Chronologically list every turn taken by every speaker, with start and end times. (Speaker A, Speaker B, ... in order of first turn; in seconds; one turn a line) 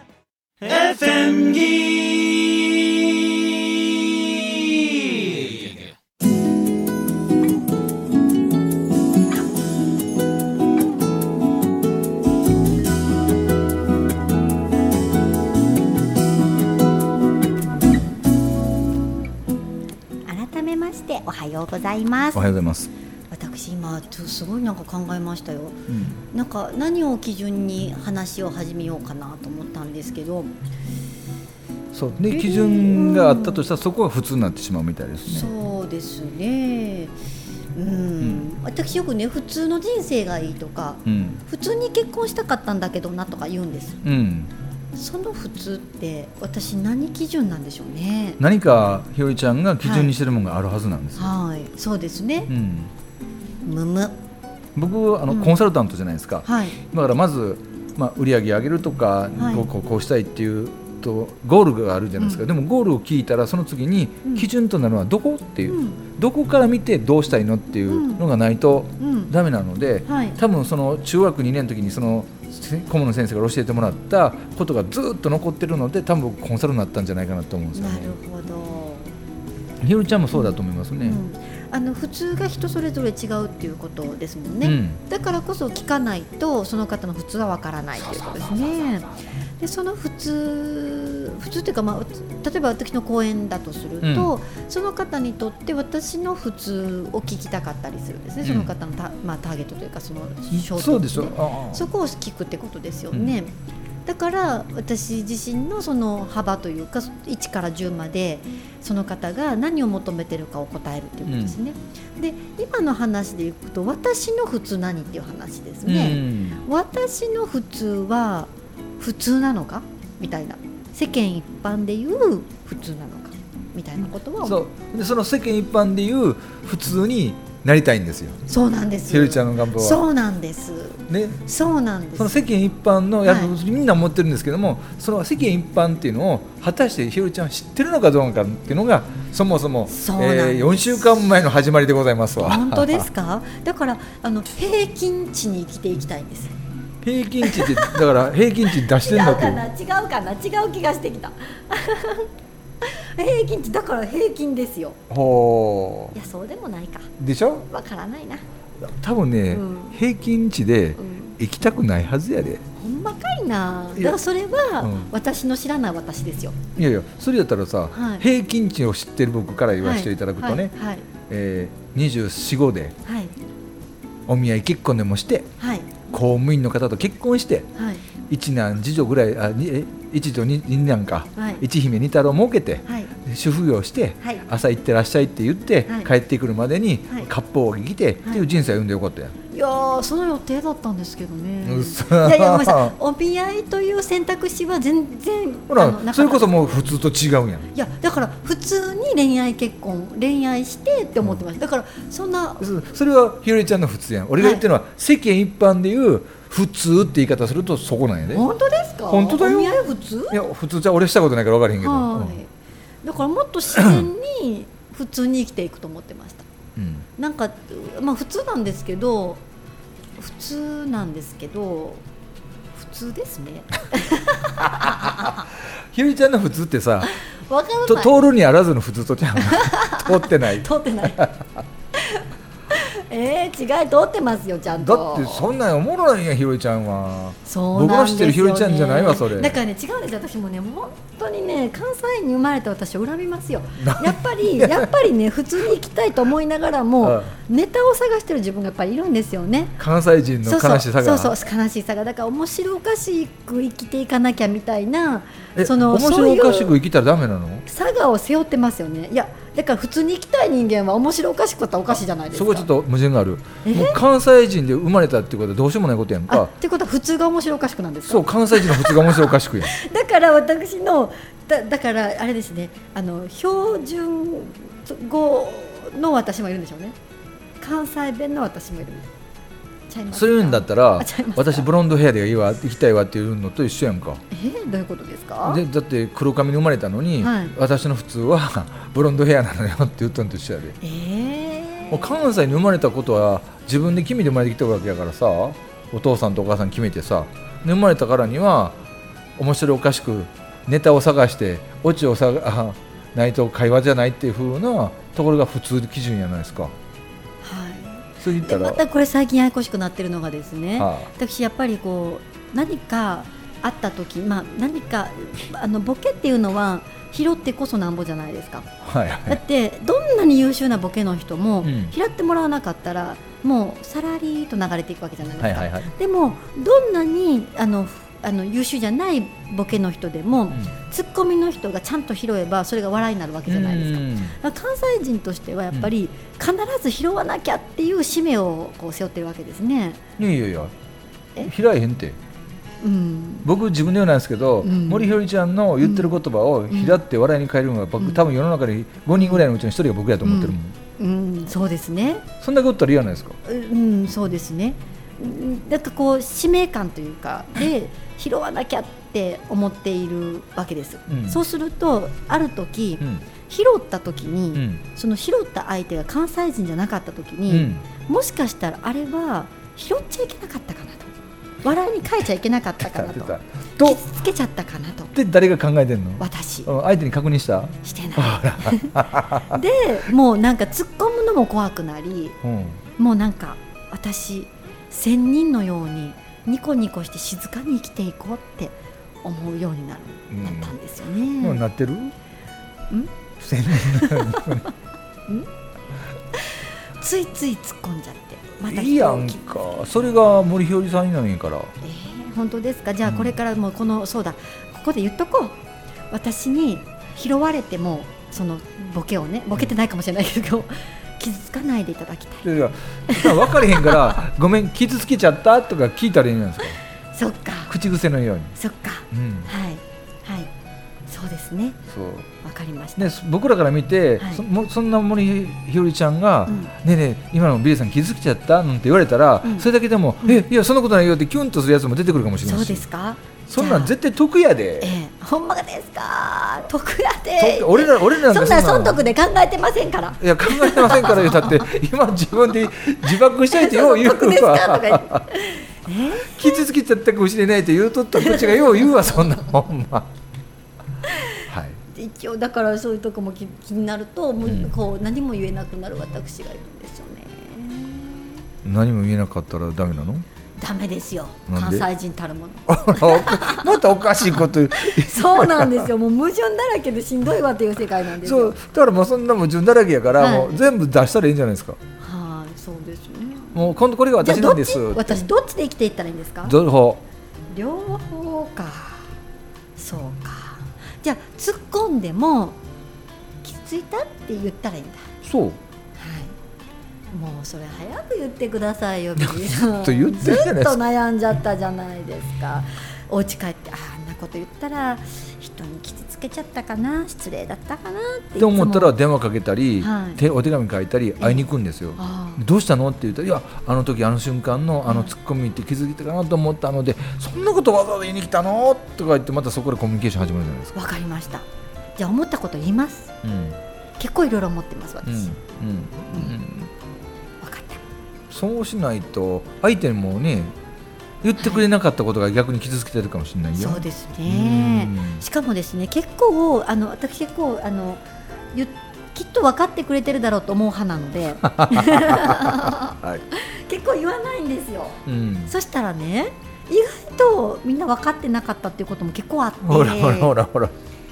Speaker A: 0.6-5.8
Speaker B: 20.2-22.4
Speaker C: 22.3-22.9
Speaker B: 23.3-30.5
Speaker C: 25.9-26.2
Speaker C: 31.9-35.5
Speaker B: 32.3-33.6
Speaker B: 35.3-37.1
Speaker B: 37.7-44.0
Speaker C: 38.2-38.5
Speaker C: 41.0-41.4
Speaker C: 44.0-44.5
Speaker B: 45.0-48.4
Speaker C: 48.4-51.3
Speaker B: 49.8-50.1
Speaker B: 51.2-52.5
Speaker C: 52.5-52.9
Speaker B: 53.6-54.1
Speaker C: 54.8-78.1
Speaker B: 55.3-55.6
Speaker B: 56.4-56.8
Speaker B: 59.4-59.7
Speaker B: 62.2-62.5
Speaker B: 65.7-66.0
Speaker B: 67.9-68.2
Speaker B: 69.0-69.3
Speaker B: 70.1-70.4
Speaker B: 77.7-79.1
Speaker C: 79.8-81.2
Speaker B: 80.3-103.5
Speaker C: 84.6-85.0
Speaker C: 88.1-88.7
Speaker C: 94.0-94.3
Speaker C: 98.4-98.7
Speaker C: 100.5-101.9
Speaker C: 103.1-103.4
Speaker B: 104.0-124.6
Speaker C: 111.2-111.5
Speaker C: 115.8-116.6
Speaker C: 124.4-128.4
Speaker B: 128.5-132.4
Speaker C: 129.1-130.0
Speaker C: 131.1-131.4
Speaker C: 132.2-143.1
Speaker B: 133.2-133.5
Speaker B: 139.9-141.2
Speaker B: 142.4-146.5
Speaker C: 147.0-149.6
Speaker B: 147.4-148.0
Speaker B: 148.7-152.3
Speaker B: 152.8-155.0
Speaker C: 155.1-156.1
Speaker B: 156.1-157.1
Speaker C: 157.2-157.7
Speaker B: 157.7-158.4
Speaker C: 158.8-162.6
Speaker B: 159.5-160.0
Speaker B: 161.0-161.3
Speaker B: 162.8-166.6
Speaker C: 164.8-165.1
Speaker C: 166.8-170.7
Speaker B: 167.9-168.2
Speaker B: 169.8-171.0
Speaker C: 171.3-172.9
Speaker B: 173.0-173.3
Speaker C: 174.3-175.5
Speaker B: 175.6-176.1
Speaker C: 176.1-177.7
Speaker B: 177.8-178.0
Speaker C: 178.3-189.3
Speaker B: 181.4-181.6
Speaker B: 182.8-183.1
Speaker B: 189.5-196.8
Speaker C: 191.6-192.9
Speaker C: 195.7-197.7
Speaker B: 197.7-202.6
Speaker C: 202.6-208.4
Speaker B: 204.4-204.6
Speaker B: 208.3-210.4
Speaker C: 209.1-212.4
Speaker B: 211.8-212.5
Speaker B: 213.0-216.4
Speaker C: 213.8-214.0
Speaker C: 216.8-217.1
Speaker B: 217.2-219.4
Speaker B: 220.2-222.0
Speaker B: 222.7-225.5
Speaker C: 224.7-225.3
Speaker C: 225.9-227.1
Speaker B: 227.0-228.1
Speaker C: 227.8-231.6
Speaker B: 229.4-231.2
Speaker B: 231.9-235.6
Speaker C: 234.8-239.6
Speaker B: 237.4-249.8
Speaker C: 243.8-244.9
Speaker C: 247.0-247.3
Speaker C: 249.8-251.3
Speaker B: 250.4-256.7
Speaker C: 255.6-257.6
Speaker B: 257.7-262.7
Speaker C: 262.3-266.5
Speaker B: 263.6-264.0
Speaker B: 266.3-276.9
Speaker C: 268.1-269.7
Speaker B: 277.6-279.1
Speaker B: 279.9-281.7
Speaker C: 280.1-284.2
Speaker B: 284.3-285.6
Speaker C: 285.4-290.8
Speaker B: 287.2-287.5
Speaker B: 290.8-292.2
Speaker C: 291.9-298.8
Speaker C: 299.4-306.7
Speaker B: 307.4-318.7
Speaker C: 308.2-308.8
Speaker C: 310.8-311.1
Speaker C: 318.8-319.4
Speaker B: 319.2-340.0
Speaker C: 321.6-321.9
Speaker C: 325.4-325.9
Speaker C: 333.5-334.4
Speaker C: 340.2-340.7
Speaker C: 341.4-342.2
Speaker B: 342.8-343.5
Speaker C: 343.4-350.8
Speaker B: 344.6-345.2
Speaker B: 345.8-346.1
Speaker B: 346.7-347.0
Speaker B: 349.1-349.4
Speaker B: 350.2-352.2
Speaker C: 352.4-353.4
Speaker B: 353.4-375.1
Speaker C: 361.1-361.4
Speaker C: 364.5-364.8
Speaker C: 367.5-367.8
Speaker C: 372.8-374.0
Speaker C: 375.1-379.6
Speaker B: 376.2-376.7
Speaker B: 377.8-382.4
Speaker C: 382.4-382.8
Speaker B: 383.0-391.6
Speaker C: 390.3-390.7
Speaker C: 391.4-392.1
Speaker C: 393.4-394.7
Speaker B: 393.6-394.7
Speaker B: 396.3-399.5
Speaker C: 398.6-401.7
Speaker B: 401.8-405.6
Speaker B: 406.1-412.5
Speaker C: 412.4-416.8
Speaker B: 413.1-414.1
Speaker B: 417.1-417.8
Speaker C: 417.7-418.5
Speaker B: 418.6-420.5
Speaker C: 419.1-419.5
Speaker B: 421.1-421.8
Speaker C: 421.9-422.3
Speaker B: 422.4-423.1
Speaker C: 423.0-432.8
Speaker B: 432.4-433.9
Speaker C: 433.5-434.9
Speaker B: 434.8-441.6
Speaker C: 437.4-439.0
Speaker C: 440.2-445.3
Speaker B: 443.5-446.6
Speaker C: 446.2-450.1
Speaker B: 448.1-449.3
Speaker B: 451.0-458.4
Speaker C: 451.5-451.8
Speaker C: 454.4-454.7
Speaker C: 458.6-460.2
Speaker B: 460.6-463.7
Speaker C: 461.5-461.9
Speaker C: 462.7-465.9
Speaker B: 464.7-468.6
Speaker C: 468.2-471.8
Speaker B: 470.2-470.6
Speaker B: 472.0-476.6
Speaker C: 473.5-475.2
Speaker C: 476.4-477.0
Speaker B: 477.5-479.1
Speaker B: 479.8-482.6
Speaker B: 483.4-485.1
Speaker C: 485.2-485.6
Speaker B: 486.0-486.3
Speaker B: 487.1-498.9
Speaker C: 489.2-490.8
Speaker C: 498.4-510.8
Speaker B: 499.8-500.2
Speaker B: 501.2-502.4
Speaker B: 504.9-505.1
Speaker B: 510.7-511.4
Speaker B: 512.0-513.1
Speaker C: 513.2-513.6
Speaker B: 514.0-515.3
Speaker C: 515.0-516.7
Speaker B: 517.4-517.8
Speaker C: 518.3-520.5
Speaker C: 521.2-525.2
Speaker B: 521.4-521.6
Speaker B: 523.5-528.0
Speaker B: 528.5-540.3
Speaker C: 531.4-533.2
Speaker C: 535.0-535.5
Speaker C: 539.6-540.7